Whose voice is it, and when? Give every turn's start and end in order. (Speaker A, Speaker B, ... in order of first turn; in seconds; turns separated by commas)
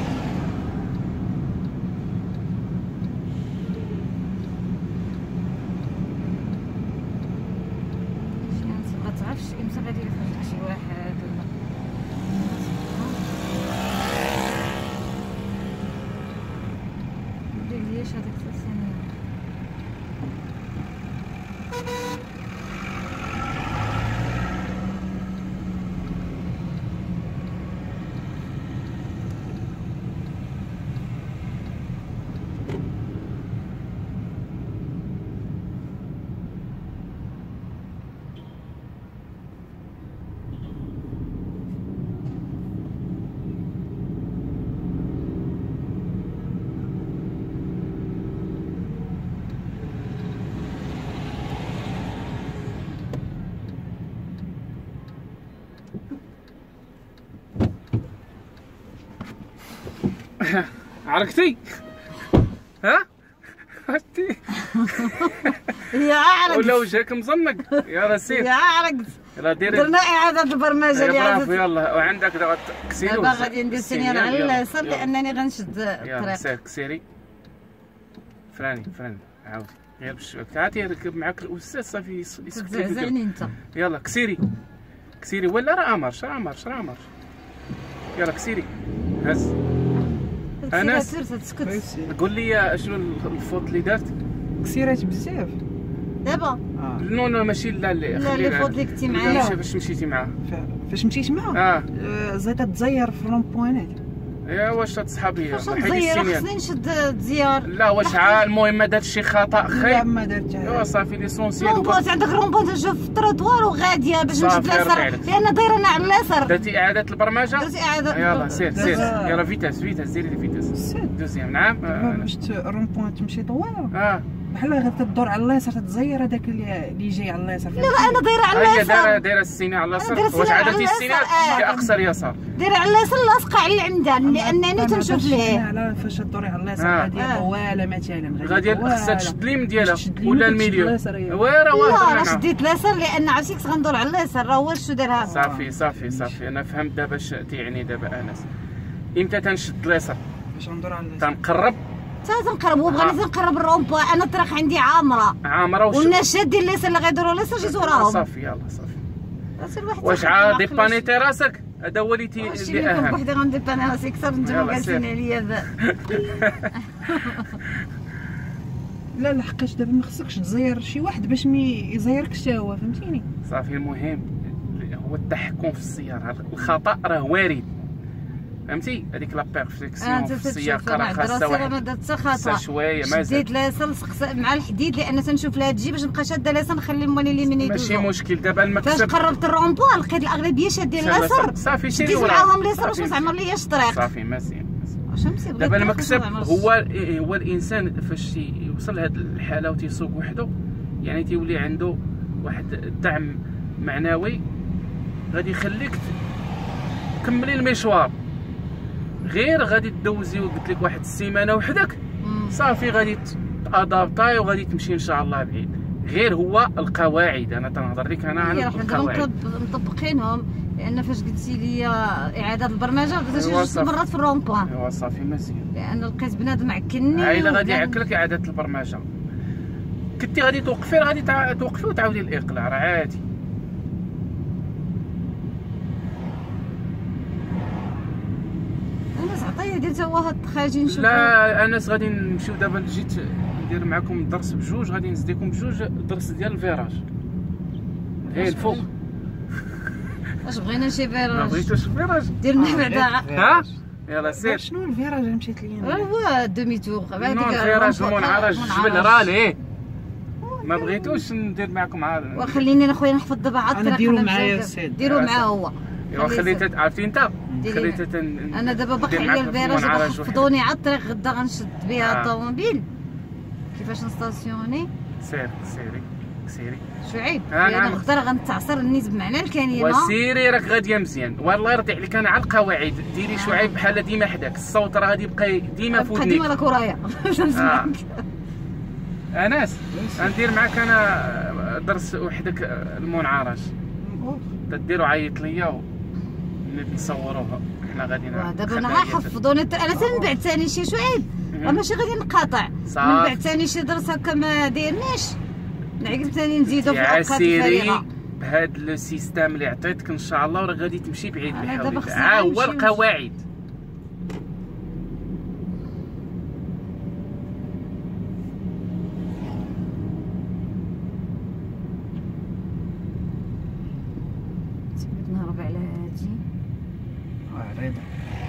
Speaker A: 8.4-11.5, Speaker A: 12.3-13.2, Speaker A: 17.5-19.1, Speaker B: 60.4-61.8, Speaker B: 63.7-65.8, Speaker A: 64.5-66.9, Speaker B: 66.5-68.5, Speaker A: 67.7-71.6, Speaker B: 69.3-69.9, Speaker B: 70.9-75.1, Speaker A: 73.0-76.5, Speaker B: 76.0-77.0, Speaker B: 78.5-83.2, Speaker A: 82.5-83.5, Speaker B: 83.7-84.4, Speaker B: 85.2-87.1, Speaker B: 88.2-88.7, Speaker B: 89.2-89.5, Speaker A: 90.6-91.8, Speaker B: 90.7-91.1, Speaker C: 91.6-92.2, Speaker B: 92.1-94.1, Speaker C: 94.6-95.6, Speaker A: 96.2-96.6, Speaker C: 96.8-97.0, Speaker B: 97.0-100.3, Speaker A: 98.1-99.6, Speaker C: 100.5-104.0, Speaker B: 101.5-101.9, Speaker B: 104.5-106.5, Speaker A: 105.5-108.5, Speaker B: 107.7-110.1, Speaker C: 109.7-110.9, Speaker B: 110.6-112.0, Speaker A: 111.6-116.7, Speaker B: 114.3-115.3, Speaker B: 116.4-122.3, Speaker A: 117.6-119.2, Speaker C: 118.6-119.4, Speaker C: 120.7-121.2, Speaker C: 121.8-124.0, Speaker B: 123.9-124.2, Speaker C: 124.5-128.2, Speaker A: 127.8-129.2, Speaker B: 128.5-132.4, Speaker A: 130.0-131.9, Speaker A: 132.6-135.6, Speaker C: 134.2-141.4, Speaker B: 136.8-137.2, Speaker A: 137.2-137.5, Speaker B: 138.4-142.4, Speaker A: 141.7-145.4, Speaker C: 145.2-146.4, Speaker B: 145.3-148.4, Speaker B: 149.2-150.2, Speaker C: 150.5-151.3, Speaker B: 151.2-151.8, Speaker A: 152.2-155.4, Speaker B: 152.9-153.2, Speaker B: 155.4-156.2, Speaker A: 155.9-158.2, Speaker B: 157.6-159.0, Speaker A: 159.6-161.1, Speaker B: 160.0-163.2, Speaker A: 162.4-165.7, Speaker B: 164.4-165.1, Speaker B: 165.8-167.5, Speaker A: 166.8-167.6, Speaker C: 169.1-173.2, Speaker B: 173.4-177.7, Speaker B: 178.7-181.8, Speaker A: 180.0-188.1, Speaker B: 182.3-183.5, Speaker B: 187.6-189.2, Speaker A: 188.8-194.1, Speaker B: 191.0-193.3, Speaker B: 193.9-195.0, Speaker A: 195.1-196.7, Speaker B: 195.6-200.5, Speaker B: 201.0-204.4, Speaker B: 205.3-206.1, Speaker B: 207.2-208.1, Speaker B: 209.2-212.0, Speaker A: 212.2-212.6, Speaker B: 212.5-219.3, Speaker A: 218.3-224.7, Speaker B: 223.3-223.9, Speaker B: 224.7-225.7, Speaker A: 225.7-228.0, Speaker B: 227.1-229.1, Speaker B: 230.2-233.2, Speaker A: 239.2-241.3, Speaker B: 240.9-247.0, Speaker B: 248.2-248.9, Speaker A: 248.2-248.9, Speaker A: 250.4-251.7, Speaker B: 251.3-252.4, Speaker A: 252.4-253.3, Speaker C: 252.6-253.8, Speaker B: 253.3-254.6, Speaker C: 254.4-256.1, Speaker A: 255.8-259.3, Speaker B: 257.2-259.6, Speaker C: 260.4-261.2, Speaker B: 260.6-262.7, Speaker A: 262.4-266.6, Speaker C: 263.7-265.1, Speaker B: 265.1-265.5, Speaker B: 266.1-270.5, Speaker A: 267.6-268.0, Speaker A: 268.5-272.9, Speaker B: 272.0-272.3, Speaker A: 273.7-274.9, Speaker B: 275.2-276.8, Speaker A: 277.0-280.1, Speaker B: 277.5-278.0, Speaker B: 279.7-286.5, Speaker A: 283.3-283.7, Speaker A: 285.9-288.2, Speaker B: 287.5-287.9, Speaker B: 289.3-293.7, Speaker C: 289.9-290.4, Speaker C: 294.0-294.5, Speaker B: 294.7-295.8, Speaker B: 296.6-299.3, Speaker A: 298.3-305.4, Speaker C: 299.9-300.3, Speaker B: 301.5-301.8, Speaker B: 302.9-303.4, Speaker A: 306.0-308.1, Speaker B: 306.7-313.4, Speaker A: 311.5-313.0, Speaker A: 325.0-326.4, Speaker C: 327.5-328.1